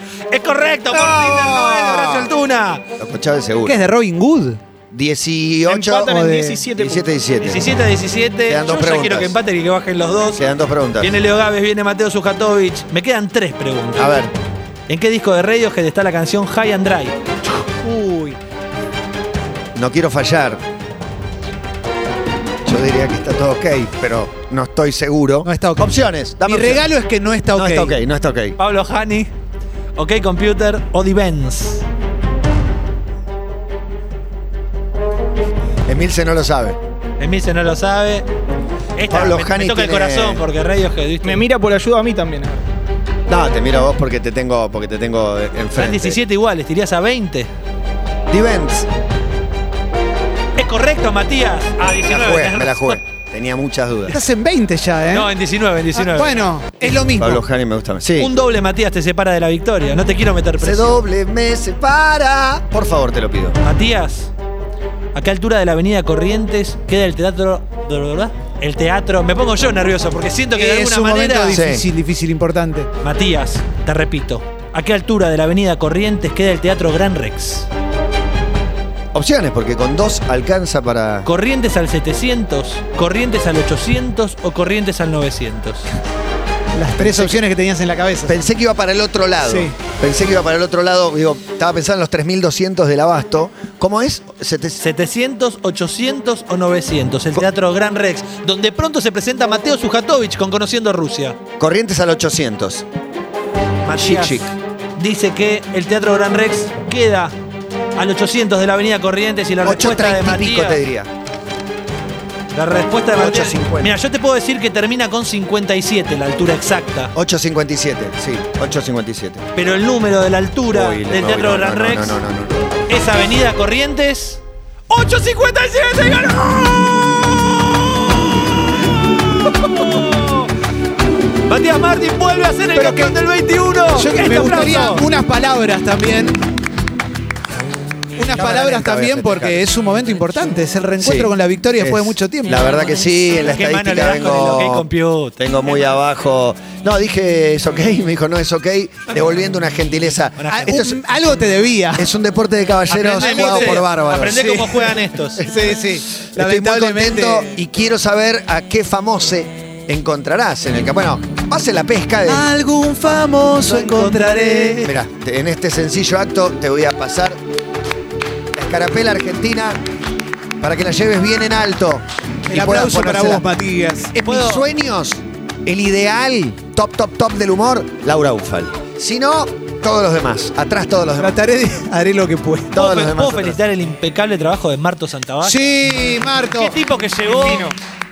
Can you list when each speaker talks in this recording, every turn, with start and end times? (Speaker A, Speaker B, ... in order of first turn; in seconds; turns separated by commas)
Speaker A: 0.3-2.9, Speaker B: 0.9-2.3, Speaker B: 3.0-3.8, Speaker C: 3.6-4.6, Speaker B: 4.9-7.7, Speaker D: 5.7-7.1, Speaker C: 6.1-6.6, Speaker A: 7.4-14.1, Speaker B: 8.5-9.4, Speaker B: 10.4-11.1, Speaker B: 14.0-14.3, Speaker A: 14.9-17.2, Speaker C: 17.8-18.4, Speaker B: 19.7-20.6, Speaker B: 22.6-26.9, Speaker C: 25.4-28.0, Speaker B: 27.5-28.6, Speaker A: 28.6-29.3, Speaker A: 29.9-31.9, Speaker B: 35.9-36.8, Speaker A: 37.2-38.3, Speaker A: 39.0-41.5, Speaker B: 39.1-40.4, Speaker D: 41.2-42.6, Speaker B: 43.3-46.2, Speaker A: 45.7-47.5, Speaker B: 48.3-48.9, Speaker A: 50.6-53.0, Speaker B: 52.1-54.2, Speaker C: 54.1-55.3, Speaker A: 55.1-56.4, Speaker C: 56.0-57.4, Speaker B: 57.1-58.3, Speaker A: 58.2-61.0, Speaker B: 60.6-63.6, Speaker A: 63.6-64.3, Speaker A: 65.1-71.6, Speaker C: 70.6-72.9, Speaker B: 71.5-71.9, Speaker A: 73.0-77.7, Speaker B: 79.1-81.3, Speaker A: 81.2-85.9, Speaker C: 86.8-88.5, Speaker B: 87.0-87.4, Speaker B: 88.3-94.8, Speaker C: 89.4-89.7, Speaker A: 94.8-101.4, Speaker B: 101.6-102.8, Speaker A: 103.8-107.3, Speaker B: 103.9-104.5, Speaker A: 108.0-110.8, Speaker B: 109.6-111.1, Speaker A: 112.5-117.1, Speaker B: 113.1-113.9, Speaker B: 117.1-119.5, Speaker A: 119.6-122.2, Speaker B: 120.7-122.8, Speaker A: 122.9-130.5, Speaker A: 131.4-135.1, Speaker C: 132.7-133.1, Speaker C: 133.9-136.4, Speaker C: 138.2-143.2, Speaker B: 138.3-139.7, Speaker B: 141.0-144.9, Speaker A: 143.4-145.7, Speaker B: 145.4-151.0, Speaker A: 150.4-150.8, Speaker C: 150.5-152.1, Speaker B: 152.0-154.7, Speaker A: 152.9-155.4, Speaker C: 152.9-157.5, Speaker B: 155.4-162.5, Speaker C: 162.3-164.8, Speaker A: 163.6-164.9, Speaker B: 164.8-167.4, Speaker B: 168.6-169.8, Speaker B: 170.6-173.4, Speaker C: 172.5-174.1, Speaker A: 174.1-174.7, Speaker B: 174.2-181.4, Speaker C: 181.2-182.8, Speaker A: 182.7-185.7, Speaker B: 182.7-183.6, Speaker C: 185.4-186.7, Speaker A: 186.5-187.7, Speaker C: 187.3-187.7